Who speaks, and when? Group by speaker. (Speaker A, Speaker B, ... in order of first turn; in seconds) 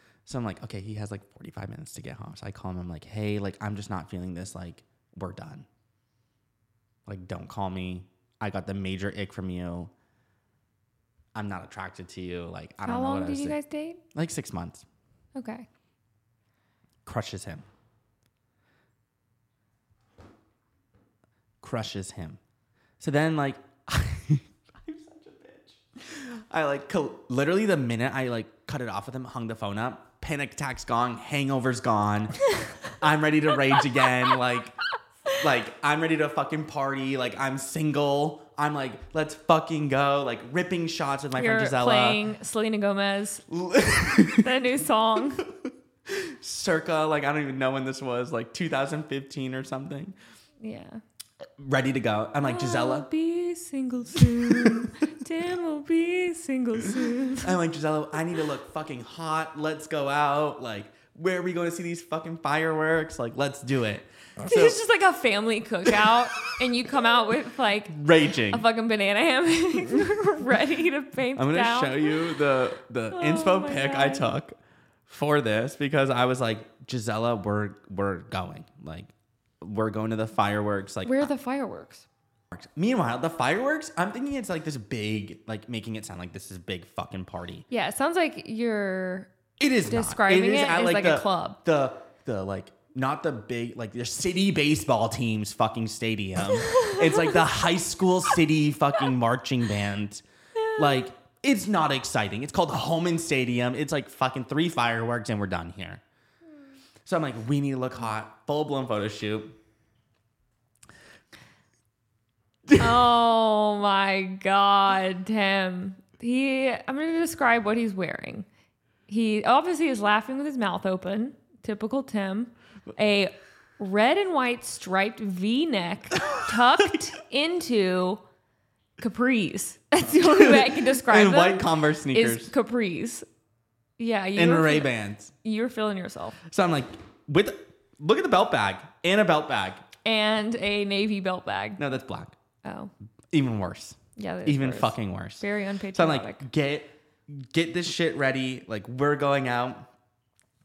Speaker A: 0.3-5.7, 7.1-9.9, 11.3-13.6, 14.1-14.8, 17.0-17.6, 21.6-22.4, 23.0-34.8, 35.4-42.2, 43.5-44.5, 45.5-50.2, 51.6-53.1, 54.1-54.9, 57.0-64.8, 65.9-66.2, 67.9-68.7, 71.3-74.6, 75.1-81.3, 82.5-87.7, 89.6-100.2, 100.8-106.0, 107.0-109.6, 130.2-132.5, 134.4-135.3, 136.5-139.8, 141.8-142.4, 143.3-149.9
Speaker B: 12.8-14.0, 15.3-15.7, 41.4-43.5, 44.4-45.4, 50.6-51.0, 52.4-57.6, 64.4-72.3, 73.1-74.3, 81.0-82.1, 87.7-89.3, 89.9-91.6, 96.7-97.2, 112.8-118.5, 119.1-128.2, 129.0-133.3, 134.0-136.4, 140.1-141.8, 142.6-142.9, 144.2-146.4